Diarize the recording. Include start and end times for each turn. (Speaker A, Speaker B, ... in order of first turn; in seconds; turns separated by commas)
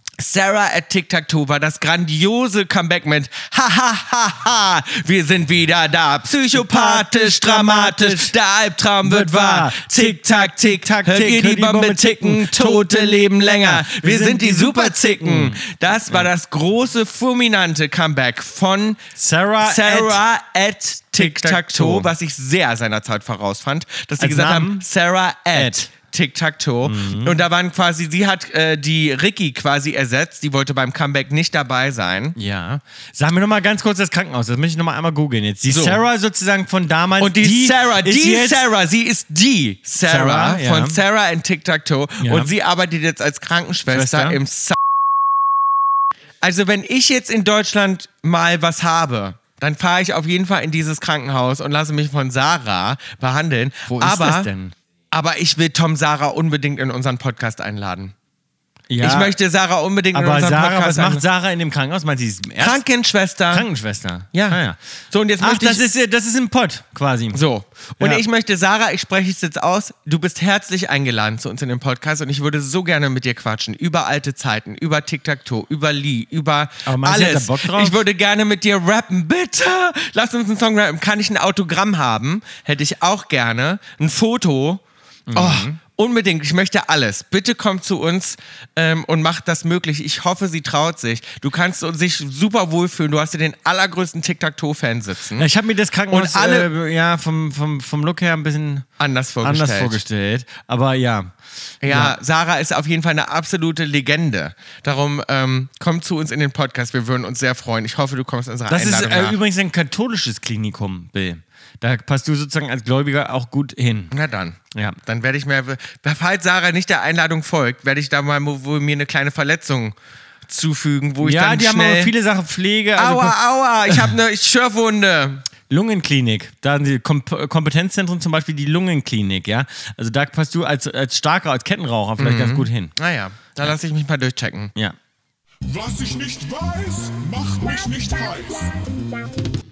Speaker A: 0.2-19.0, Speaker B: 6.5-8.3, Speaker B: 9.0-16.3, Speaker B: 19.2-20.2, Speaker A: 19.6-32.4, Speaker B: 21.1-22.1, Speaker B: 24.2-24.9, Speaker B: 25.5-25.9, Speaker B: 26.9-27.4, Speaker B: 32.4-38.6, Speaker A: 35.7-36.0, Speaker A: 37.2-44.8, Speaker B: 40.0-41.0, Speaker B: 42.2-42.5, Speaker B: 43.9-44.4, Speaker A: 46.4-54.5, Speaker B: 53.9-54.7, Speaker A: 55.1-58.1, Speaker B: 58.9-59.4, Speaker A: 59.0-61.2, Speaker B: 60.1-62.8, Speaker A: 62.6-63.7, Speaker B: 63.5-64.8, Speaker A: 64.3-64.6, Speaker A: 65.1-65.8, Speaker B: 65.4-67.4, Speaker A: 67.3-84.8, Speaker B: 76.9-78.0, Speaker B: 85.3-85.8, Speaker A: 85.3-95.5, Speaker B: 95.4-98.9, Speaker A: 96.1-96.7, Speaker A: 99.0-100.0, Speaker B: 99.4-101.3, Speaker A: 101.8-109.4, Speaker B: 101.8-102.2, Speaker B: 108.7-114.1, Speaker A: 114.1-120.0, Speaker B: 114.7-115.0, Speaker A: 120.5-122.1, Speaker B: 121.2-124.1, Speaker A: 123.0-125.4, Speaker B: 125.7-132.9, Speaker A: 132.2-134.7, Speaker C: 135.7-138.8